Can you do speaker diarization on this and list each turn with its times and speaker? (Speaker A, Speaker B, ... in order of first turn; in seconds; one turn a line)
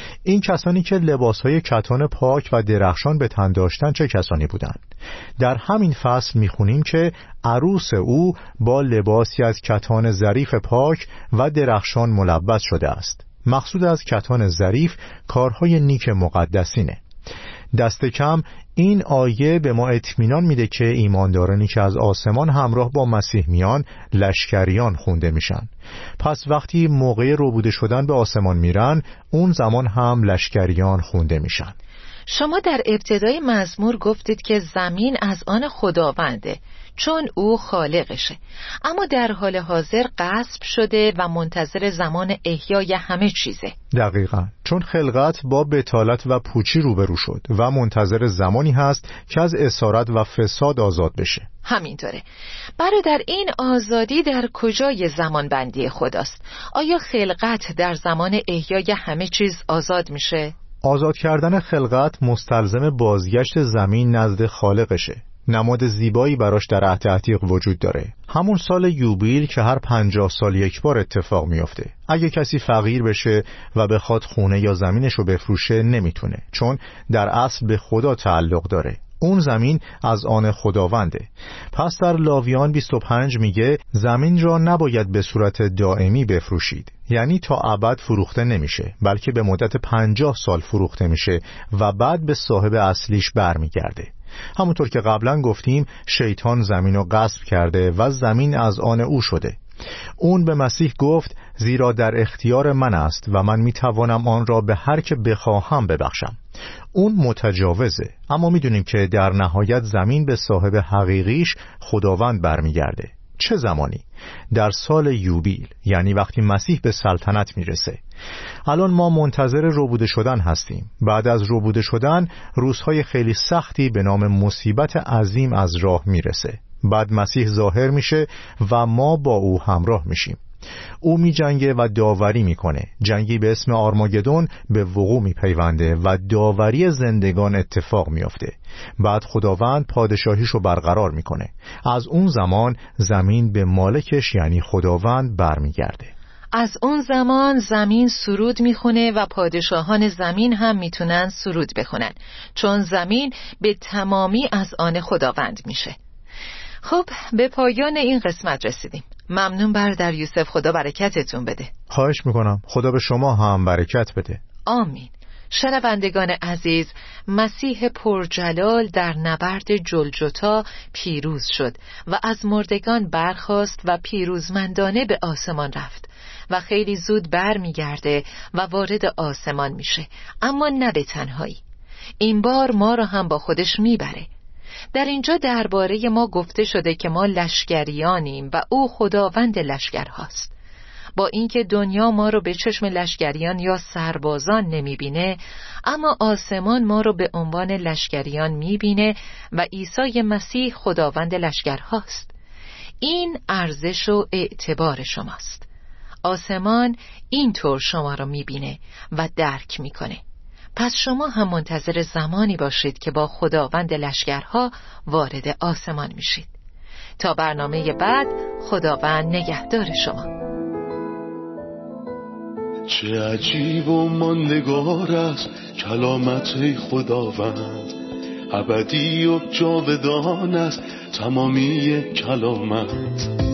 Speaker A: 0.2-4.8
Speaker A: 5.4-17.0
Speaker A: 17.7-31.8
Speaker B: 32.3-43.8
Speaker A: 43.9-51.5
Speaker B: 51.6-52.2
Speaker B: 52.8-60.5
Speaker A: 60.8-99.6
Speaker A: 100.2-106.4
Speaker A: 106.9-118.0
Speaker A: 118.7-130.4
Speaker A: 131.0-146.1
Speaker B: 146.5-156.0
Speaker B: 156.8-161.7
Speaker A: 161.9-164.4
Speaker B: 164.7-181.6
Speaker B: 182.2-184.3
Speaker B: 184.9-190.5
Speaker B: 191.2-202.3
Speaker B: 203.0-205.7
Speaker B: 206.2-210.2
Speaker B: 210.8-216.5
Speaker B: 217.2-220.3
Speaker C: 222.9-227.9
Speaker C: 228.5-233.3